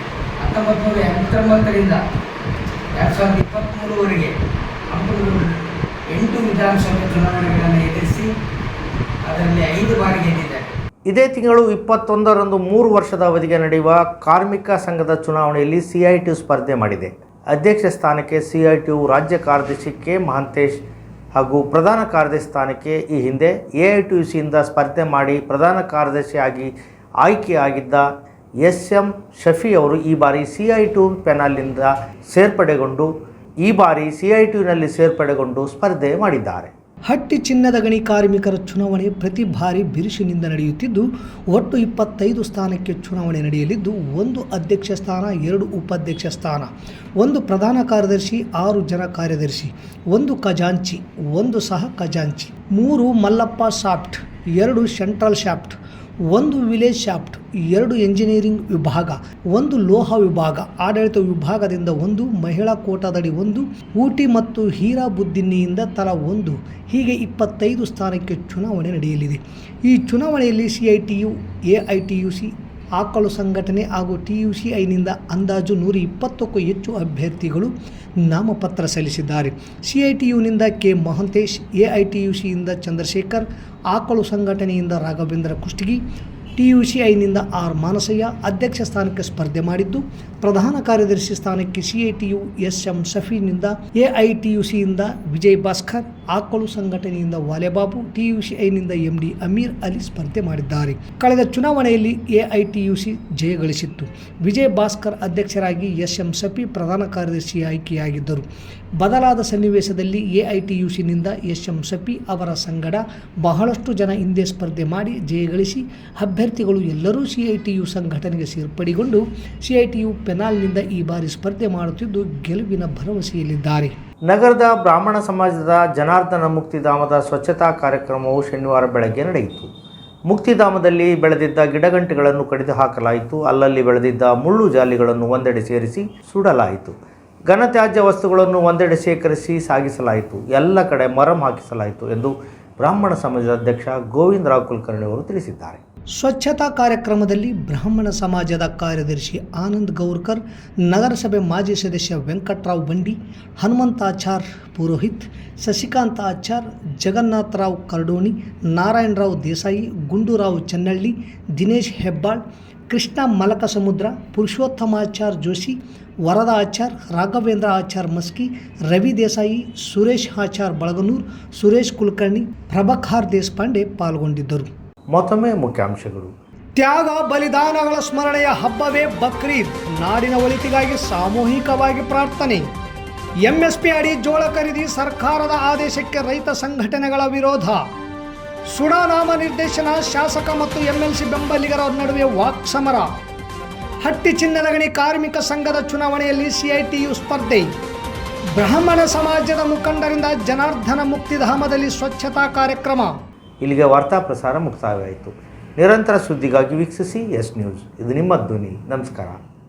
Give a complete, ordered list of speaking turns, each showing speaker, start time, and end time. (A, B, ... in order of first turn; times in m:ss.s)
0:00.4-0:02.0 A
0:03.0-0:04.4 A
0:04.9-0:05.5 A
0:06.1-0:08.3 A
0:09.2-0:10.8 A
0:11.1-0:20.8 B
0:21.4-0:28.1 B
0:28.6-0:33.1 B
0:33.6-0:36.7 B
0:37.1-0:55.8 C
0:56.3-1:17.7 C
1:18.3-1:26.0 C
1:26.6-1:48.5 C
1:49.0-2:04.0 C
2:04.3-2:09.7 B
2:10.3-2:17.0 B
2:17.5-2:25.8 B
2:26.2-2:54.7 C
2:55.1-2:56.3 B
2:56.8-3:02.7 C
3:03.4-3:07.8 C
3:08.7-3:13.1 C
3:14.0-3:17.7 C
3:18.6-3:23.2 C
3:23.6-3:29.4 B